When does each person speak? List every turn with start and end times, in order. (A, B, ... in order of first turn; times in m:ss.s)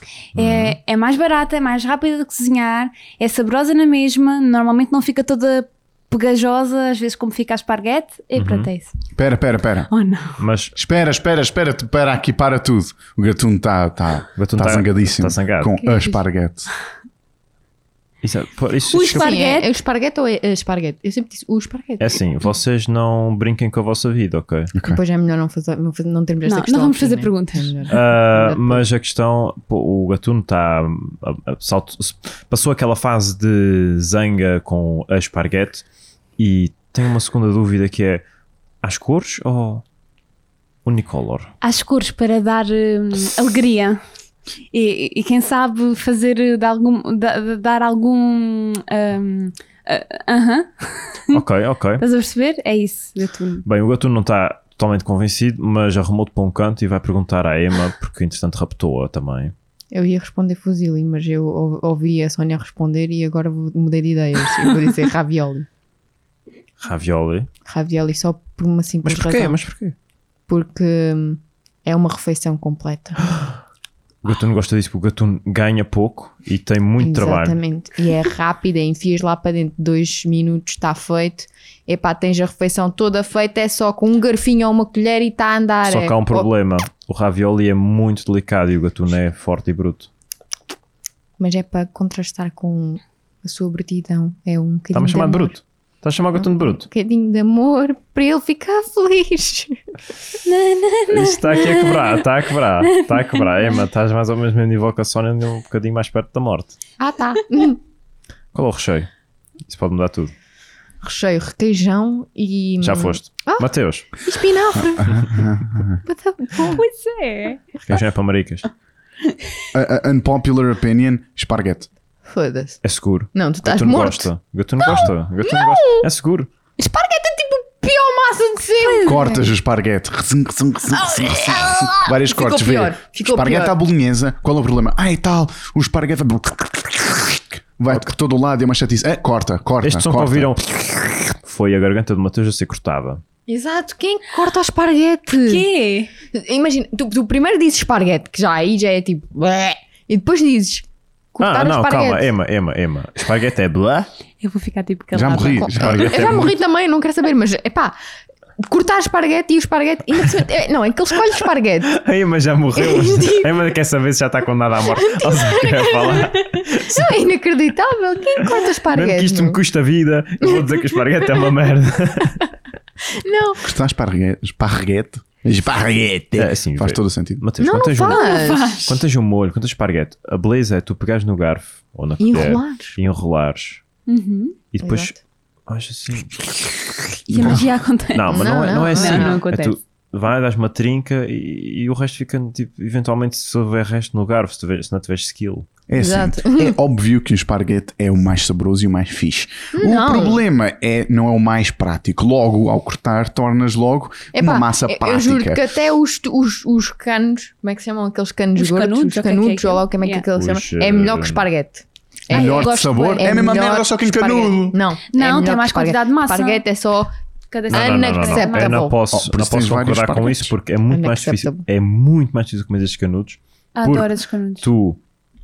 0:00.3-0:08.9 A
0:00.4-0:00.8 B
0:08.3-0:08.7 B
0:09.2-0:09.9 C
0:09.9-0:10.4 A
0:10.4-0:10.8 B
0:10.8-0:16.7 C
0:14.4-0:15.8 B
0:15.8-0:16.2 A
0:18.2-0:19.3 B
0:18.9-0:19.7 A
0:19.1-0:22.2 D
0:22.0-0:24.7 B
0:24.7-0:25.0 C
0:24.8-0:28.8 D
0:26.4-0:28.0 A
0:27.9-0:35.8 B
0:36.4-0:38.2 B
0:38.8-0:39.8 B
0:40.8-0:41.5 B
0:41.6-0:44.0 A
0:44.7-0:51.4 A
0:51.3-0:52.0 B
0:52.0-0:53.6 A
0:53.6-0:59.5 B
0:59.9-1:05.7 D
1:06.8-1:07.5 B
1:07.6-1:09.6 D
1:09.0-1:09.9 B
1:10.5-1:13.3 D
1:14.2-1:17.6 B
1:17.0-1:26.5 D
1:25.8-1:30.1 B
1:31.4-1:35.5 D
1:34.9-1:36.9 B
1:36.3-1:39.8 D
1:40.4-1:42.2 A
1:41.1-1:46.8 B
1:42.9-1:43.8 A
1:47.0-1:47.8 D
1:48.5-1:49.1 B
1:49.7-1:50.3 B
1:51.0-1:53.7 D
1:52.8-1:54.1 B
1:54.2-1:55.4 D
1:54.8-1:56.0 C
1:56.0-1:56.8 D
1:56.7-1:57.7 A
1:57.8-1:58.7 B
1:59.7-2:01.9 C
2:02.3-2:02.8 D
2:02.8-2:06.5 B
2:03.3-2:04.3 D
2:04.8-2:06.1 D
2:06.8-2:09.4 D
2:08.8-2:09.4 A
2:09.0-2:20.5 C
2:10.9-2:13.8 D
2:19.8-2:23.2 B
2:23.5-2:25.7 D
2:25.4-2:26.1 A
2:26.3-2:32.3 D
2:31.4-2:34.1 B
2:34.4-2:36.0 A
2:35.1-2:36.6 C
2:35.6-2:36.3 B
2:36.0-2:37.9 D
2:38.6-2:41.9 D
2:41.9-2:47.2 B
2:42.8-2:43.5 D
2:45.0-2:49.6 D
2:48.5-2:52.5 B
2:53.1-2:53.6 D
2:53.6-2:57.4 C
2:56.4-3:03.8 B
2:57.6-2:58.8 D
2:58.0-2:58.9 A
3:02.2-3:03.0 D
3:04.1-3:04.6 A
3:04.7-3:05.1 B
3:04.8-3:05.2 D
3:05.7-3:15.7 B
3:07.3-3:09.8 A
3:08.3-3:09.4 D
3:15.9-3:25.6 C
3:16.0-3:16.8 D
3:19.7-3:20.4 D
3:24.3-3:37.1 D
3:28.5-3:30.2 A
3:30.3-3:31.4 B
3:32.3-3:33.6 A
3:32.3-3:34.8 C
3:35.1-3:36.6 A
3:37.5-3:38.8 A
3:37.7-3:39.0 D
3:37.7-3:45.0 B
3:39.1-3:40.5 C
3:40.9-3:41.6 D
3:43.8-3:44.7 A